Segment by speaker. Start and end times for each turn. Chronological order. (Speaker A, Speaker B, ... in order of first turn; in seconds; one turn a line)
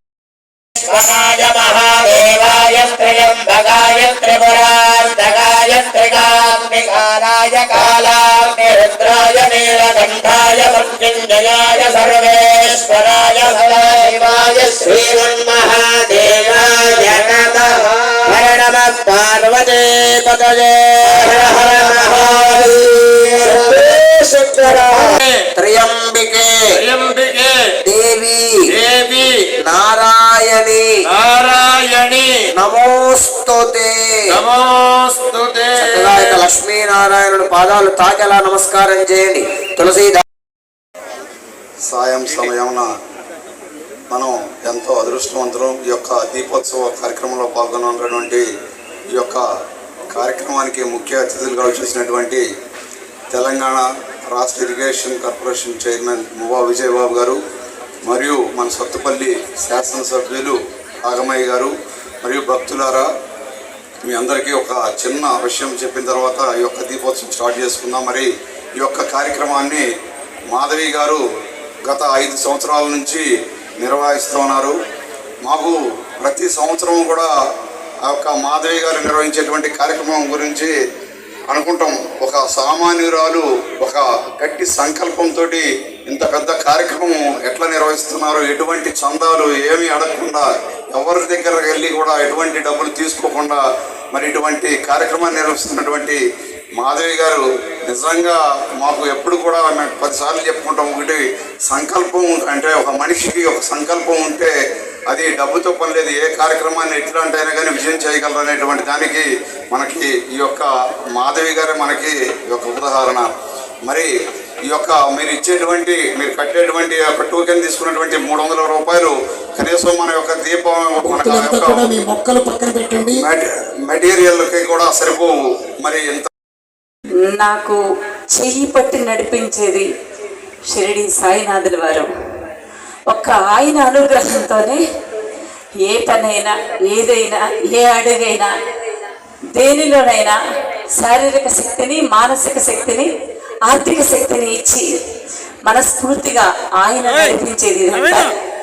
Speaker A: 0.8-25.1
Speaker B: 21.9-22.1
Speaker B: 24.9-25.4
Speaker A: 25.6-26.6
Speaker B: 26.8-27.7
Speaker A: 27.9-28.6
Speaker B: 28.7-29.5
Speaker A: 29.6-30.9
Speaker B: 31.1-32.5
Speaker A: 32.6-34.5
Speaker B: 34.3-36.4
Speaker A: 35.7-40.2
Speaker C: 41.9-42.9
Speaker C: 44.1-48.5
Speaker C: 49.1-49.4
Speaker C: 50.1-52.4
Speaker C: 53.3-57.4
Speaker C: 58.1-63.1
Speaker C: 64.0-69.8
Speaker C: 70.5-71.2
Speaker C: 71.9-73.3
Speaker C: 73.8-74.8
Speaker C: 75.5-77.3
Speaker C: 78.1-80.7
Speaker C: 81.5-96.2
Speaker C: 96.8-104.5
Speaker C: 105.1-113.3
Speaker C: 114.7-122.0
Speaker D: 121.0-123.2
Speaker C: 123.0-126.3
Speaker E: 127.3-127.8
Speaker E: 128.3-129.9
Speaker E: 130.7-132.1
Speaker E: 133.1-134.8
Speaker E: 135.8-138.5
Speaker E: 139.6-140.4
Speaker E: 141.0-143.1
Speaker E: 143.7-144.9
Speaker E: 145.7-148.3